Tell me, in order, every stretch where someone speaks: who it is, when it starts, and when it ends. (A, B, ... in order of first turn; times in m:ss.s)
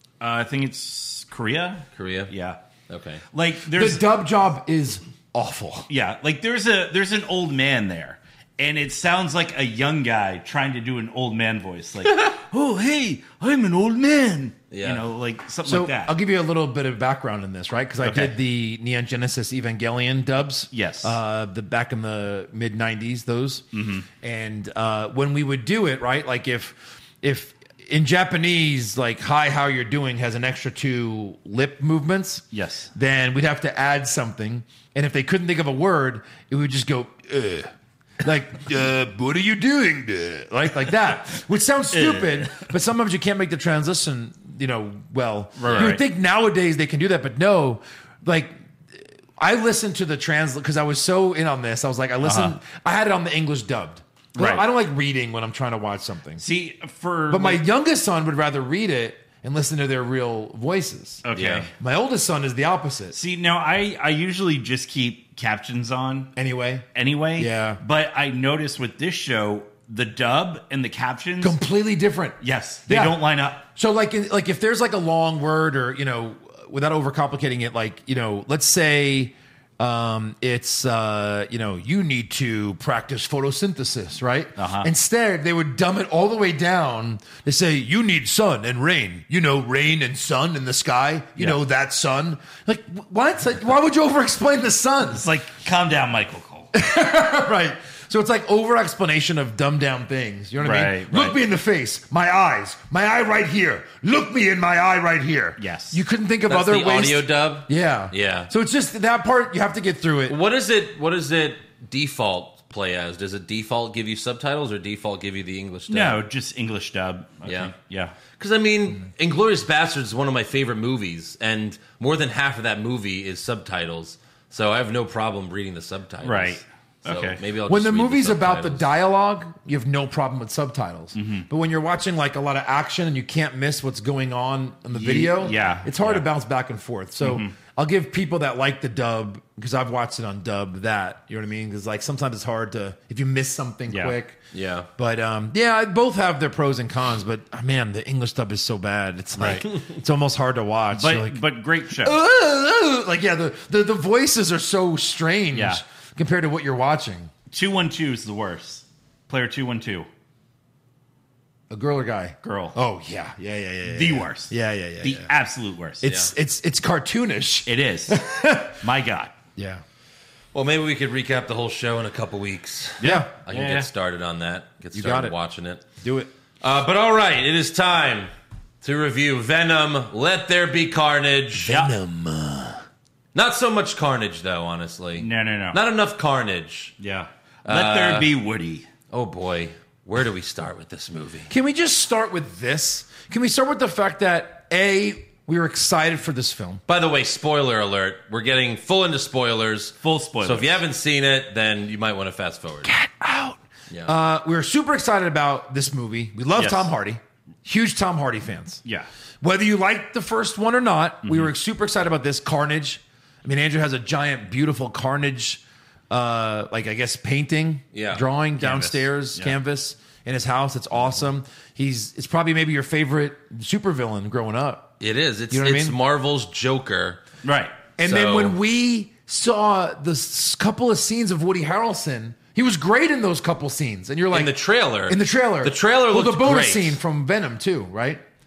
0:00.2-0:02.6 A
0:02.0-0:02.3 B
0:02.9-0:03.2 B
0:03.3-0:04.0 A
0:03.7-0:05.9 C
0:05.9-0:16.2 A
0:14.7-0:15.0 B
0:15.6-0:23.7 C
0:18.0-0:18.3 A
0:20.7-0:21.2 A
0:23.7-0:24.1 A
0:24.2-0:37.7 C
0:32.5-0:32.9 A
0:38.2-0:56.4 C
0:41.9-0:42.7 A
0:45.6-0:46.0 A
0:52.2-0:52.6 A
0:54.4-0:54.6 A
0:56.4-0:57.6 A
0:57.3-1:01.2 C
1:01.2-1:01.7 A
1:01.4-1:01.7 B
1:01.8-1:03.2 C
1:03.1-1:06.3 A
1:06.4-1:07.8 C
1:06.9-1:11.6 A
1:11.4-1:35.2 C
1:12.4-1:13.6 A
1:24.6-1:24.9 A
1:35.1-1:36.7 A
1:36.7-1:50.4 C
1:40.6-1:41.4 A
1:45.6-1:46.0 A
1:46.5-1:48.5 B
1:50.3-1:56.2 B
1:55.9-1:58.2 A
1:57.5-1:57.7 B
1:58.4-2:08.9 B
2:06.2-2:07.4 A
2:07.7-2:24.4 C
2:11.2-2:11.5 A
2:14.9-2:16.3 A
2:17.2-2:17.5 A
2:23.9-2:24.2 A
2:24.5-2:24.9 B
2:25.0-2:37.3 C
2:29.4-2:29.6 A
2:30.9-2:32.2 A
2:35.5-2:35.8 A
2:37.5-2:40.1 A
2:41.7-2:45.3 C
2:42.4-2:42.8 A
2:43.9-2:46.1 A
2:46.0-2:48.8 C
2:46.0-2:46.3 B
2:47.7-2:49.3 A
2:49.6-2:49.8 C
2:50.5-2:55.8 B
2:53.0-2:53.9 A
2:53.0-2:53.3 C
2:54.9-2:55.3 C
2:56.0-2:56.3 C
2:56.6-2:58.3 B
2:58.8-3:01.8 B
3:01.6-3:02.8 C
3:01.7-3:01.9 A
3:03.3-3:07.0 B
3:05.2-3:05.8 A
3:07.0-3:08.9 A
3:07.7-3:08.3 B
3:09.1-3:11.5 B
3:11.5-3:16.8 C
3:16.9-3:22.9 B
3:20.0-3:20.8 A
3:22.8-3:28.8 C
3:26.6-3:26.9 A
3:29.4-3:44.9 C
3:31.2-3:31.5 A
3:37.9-3:38.2 B
3:38.6-3:39.6 A
3:45.0-3:47.2 B
3:45.5-3:46.0 C
3:47.4-3:47.8 A
3:48.0-3:58.2 C
3:48.0-3:48.6 B
3:54.3-3:57.0 B